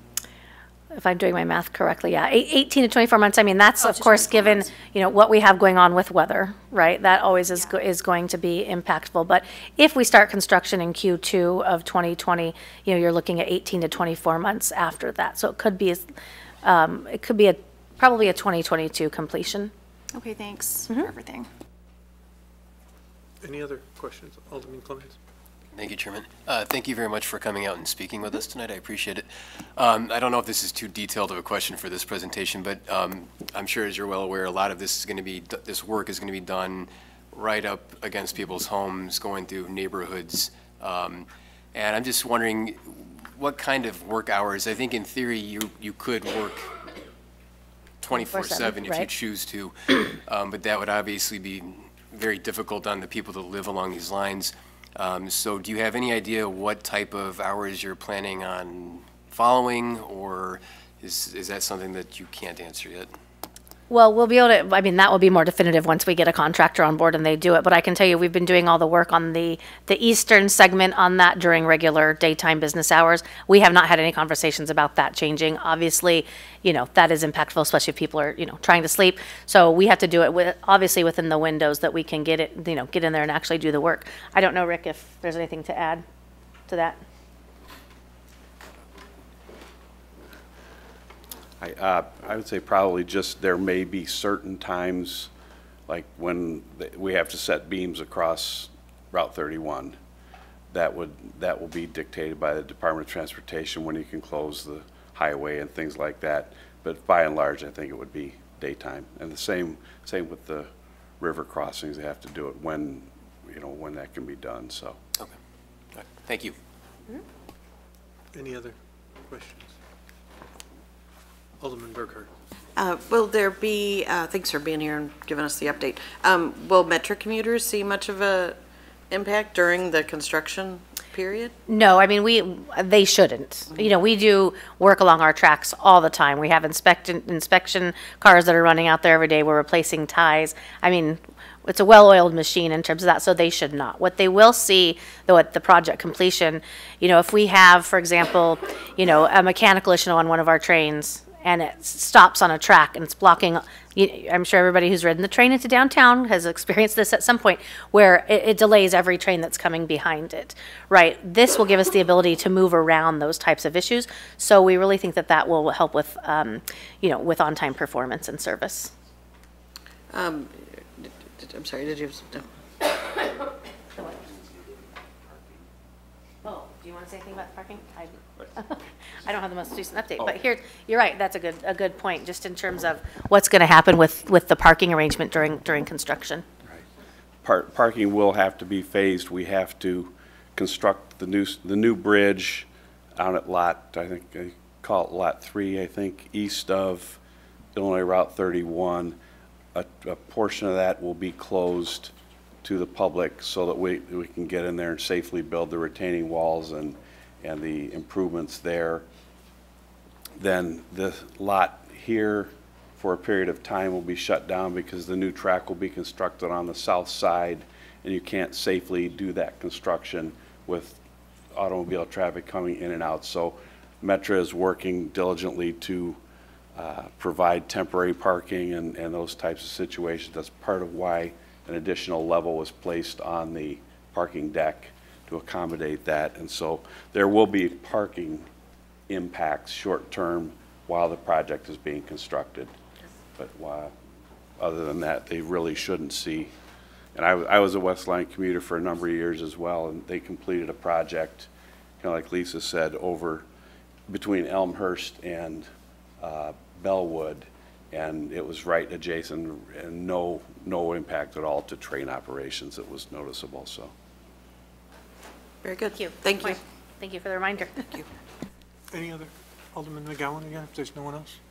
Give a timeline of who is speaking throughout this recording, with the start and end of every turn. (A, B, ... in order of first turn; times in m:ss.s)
0:01.0-0:16.0 A
0:03.8-0:04.9 B
0:16.6-0:19.7 A
0:20.1-0:21.5 B
0:23.4-0:25.2 C
0:25.7-0:46.8 D
0:48.0-1:03.1 D
0:48.1-0:49.1 A
1:03.9-1:26.0 A
1:26.7-1:27.0 A
1:31.6-1:35.3 E
1:35.9-1:40.0 E
1:40.7-1:55.0 E
1:56.0-1:56.6 D
1:58.3-1:59.8 C
2:01.6-2:02.3 C
2:02.8-2:11.5 F
2:11.7-2:48.9 A
2:50.1-2:52.5 F
2:56.4-3:06.5 A
3:07.4-3:17.2 E
3:17.8-3:19.2 E
3:19.8-3:22.1 E
3:22.6-3:29.0 E
3:30.4-3:41.0 E
3:41.5-3:46.2 E
3:46.8-3:58.5 E
3:59.1-4:02.7 E
4:03.4-4:03.9 E
4:04.6-4:06.5 E
4:07.2-4:11.5 E
4:12.0-4:13.5 E
4:14.1-4:15.7 E
4:16.2-4:23.9 E
4:25.6-4:26.6 F
4:26.0-4:27.8 A
4:28.9-4:31.4 C